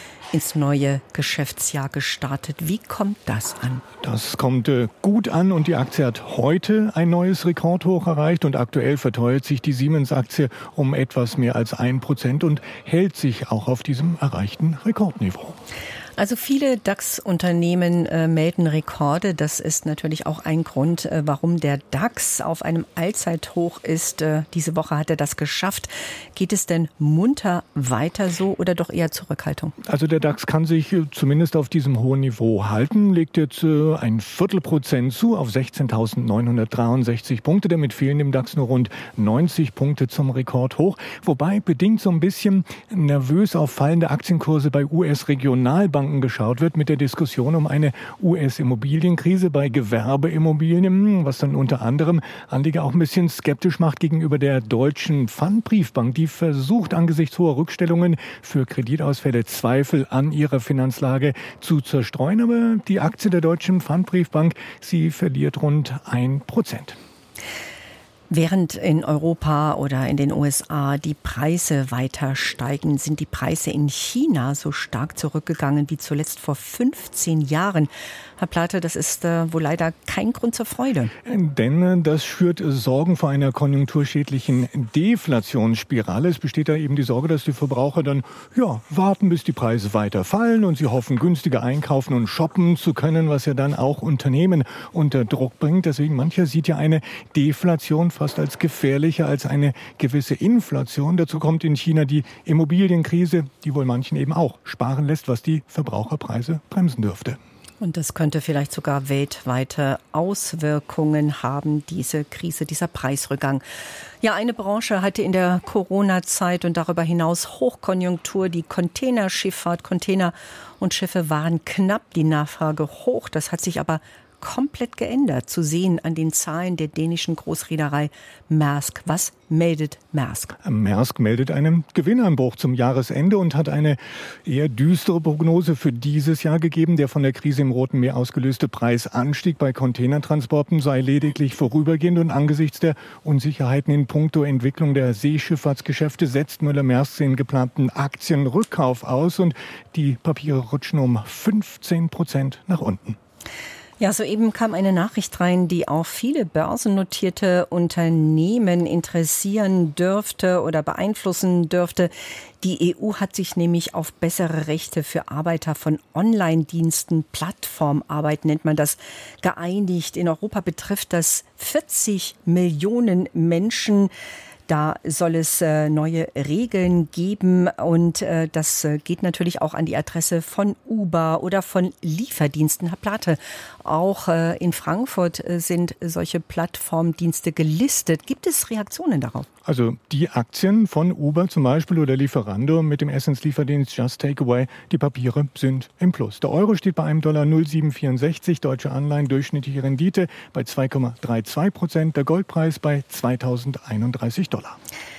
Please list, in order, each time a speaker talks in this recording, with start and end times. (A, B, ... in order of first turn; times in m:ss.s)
0:00.3-0:03.8 A
0:04.0-0:15.6 B
0:16.2-0:29.7 A
0:29.9-1:07.0 B
1:08.3-1:21.1 A
1:21.2-1:47.4 B
1:47.8-1:53.6 A
1:54.2-2:10.5 A
2:10.6-2:33.2 B
2:34.0-2:54.1 A
2:54.7-3:09.5 A
3:09.6-3:24.8 B